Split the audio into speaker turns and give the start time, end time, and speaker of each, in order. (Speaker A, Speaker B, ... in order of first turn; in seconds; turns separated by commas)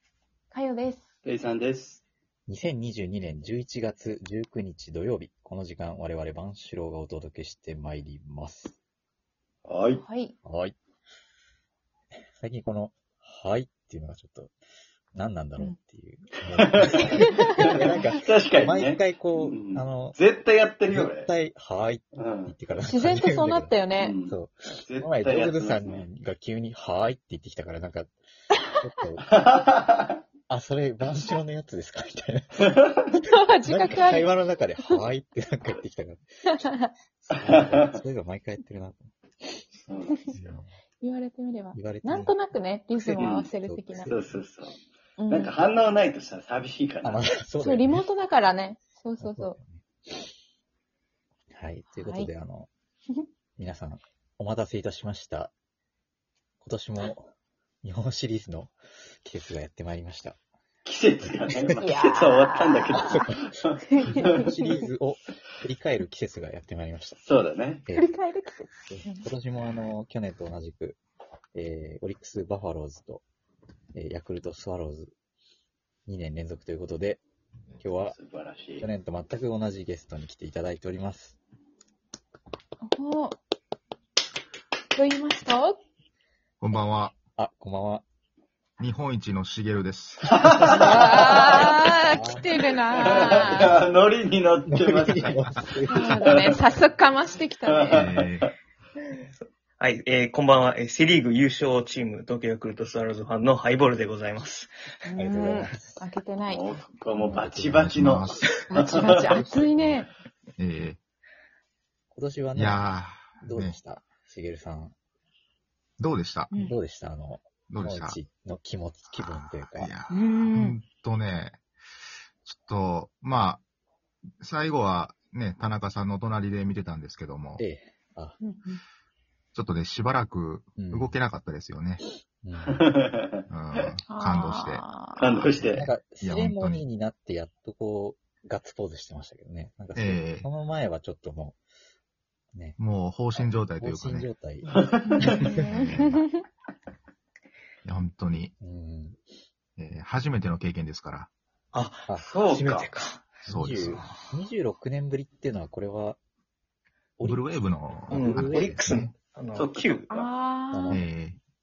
Speaker A: 0.5-1.1, Speaker B: 1.2-2.0, Speaker C: 2.5-8.8, Speaker B: 9.7-10.0, Speaker A: 9.9-10.3, Speaker C: 10.4-10.7, Speaker C: 12.4-14.5, Speaker C: 15.1-20.2, Speaker B: 16.6-17.0, Speaker A: 17.0-18.1, Speaker B: 17.6-21.3, Speaker C: 20.9-28.1, Speaker B: 22.1-22.5, Speaker A: 22.8-24.1, Speaker B: 24.0-26.0, Speaker C: 28.8-29.3, Speaker B: 29.3-30.2, Speaker C: 30.5-32.7, Speaker A: 33.2-34.3, Speaker C: 33.6-36.2, Speaker A: 36.5-36.9, Speaker C: 37.2-39.6, Speaker B: 37.5-37.9, Speaker B: 39.8-40.2, Speaker C: 40.3-40.6, Speaker D: 40.4-40.6, Speaker A: 41.0-44.1, Speaker C: 41.7-42.3, Speaker C: 43.0-44.4, Speaker B: 43.2-43.5, Speaker B: 44.0-44.8, Speaker A: 45.2-45.5, Speaker B: 45.3-47.2, Speaker C: 47.0-48.0, Speaker A: 47.6-49.6, Speaker C: 49.2-50.3, Speaker C: 51.5-52.7, Speaker A: 51.9-52.3, Speaker C: 53.6-55.5, Speaker C: 56.6-57.3, Speaker C: 57.8-58.7, Speaker C: 59.2-60.4, Speaker B: 60.8-64.5, Speaker A: 61.7-64.8, Speaker C: 62.9-63.5, Speaker C: 64.1-67.2, Speaker B: 67.2-67.9, Speaker C: 67.9-68.2, Speaker A: 67.9-69.3, Speaker C: 68.9-71.0, Speaker C: 71.5-73.2, Speaker C: 73.9-75.1, Speaker C: 76.1-77.2, Speaker C: 77.8-78.2, Speaker B: 77.9-78.8, Speaker C: 78.8-81.4, Speaker A: 82.8-83.4, Speaker A: 84.9-85.8, Speaker D: 86.6-87.1, Speaker C: 87.4-88.0, Speaker D: 88.8-90.4, Speaker B: 90.3-91.5, Speaker C: 90.6-91.3, Speaker A: 90.6-93.7, Speaker C: 92.1-93.6, Speaker B: 93.0-95.3, Speaker C: 94.7-96.5, Speaker A: 95.9-98.0, Speaker B: 96.0-96.5, Speaker B: 97.7-98.5, Speaker D: 97.9-98.5, Speaker E: 99.8-104.7, Speaker A: 105.0-106.7, Speaker C: 105.2-106.0, Speaker B: 106.5-109.5, Speaker C: 107.2-108.0, Speaker D: 107.8-108.6, Speaker A: 108.7-110.1, Speaker D: 109.5-110.0, Speaker D: 110.6-111.0, Speaker C: 112.1-112.8, Speaker D: 112.5-113.8, Speaker C: 113.4-114.9, Speaker D: 116.0-116.5, Speaker A: 116.5-116.8, Speaker C: 116.5-119.9, Speaker D: 117.7-118.2, Speaker D: 119.2-121.6, Speaker A: 120.1-120.8, Speaker D: 122.4-123.6, Speaker D: 124.4-127.6, Speaker C: 127.6-128.4, Speaker A: 128.4-128.8, Speaker D: 129.5-132.0, Speaker C: 130.8-131.2, Speaker C: 132.4-132.8, Speaker B: 132.7-133.8, Speaker D: 133.5-134.8, Speaker A: 134.1-135.3, Speaker B: 135.2-135.9, Speaker C: 135.7-141.6, Speaker D: 136.2-136.8, Speaker D: 139.9-140.5, Speaker D: 142.8-144.3, Speaker C: 143.8-144.7, Speaker B: 144.7-145.5, Speaker A: 145.1-146.2, Speaker D: 145.5-146.2, Speaker D: 147.8-148.5, Speaker C: 148.6-149.2, Speaker D: 149.8-151.3, Speaker E: 151.7-153.2, Speaker B: 152.2-152.9, Speaker C: 153.4-156.2, Speaker D: 153.4-154.0, Speaker C: 157.2-157.5, Speaker D: 157.2-159.1, Speaker C: 158.1-159.0, Speaker E: 158.1-160.1, Speaker B: 159.5-160.3, Speaker A: 160.1-161.0, Speaker C: 160.7-161.0, Speaker D: 160.9-161.4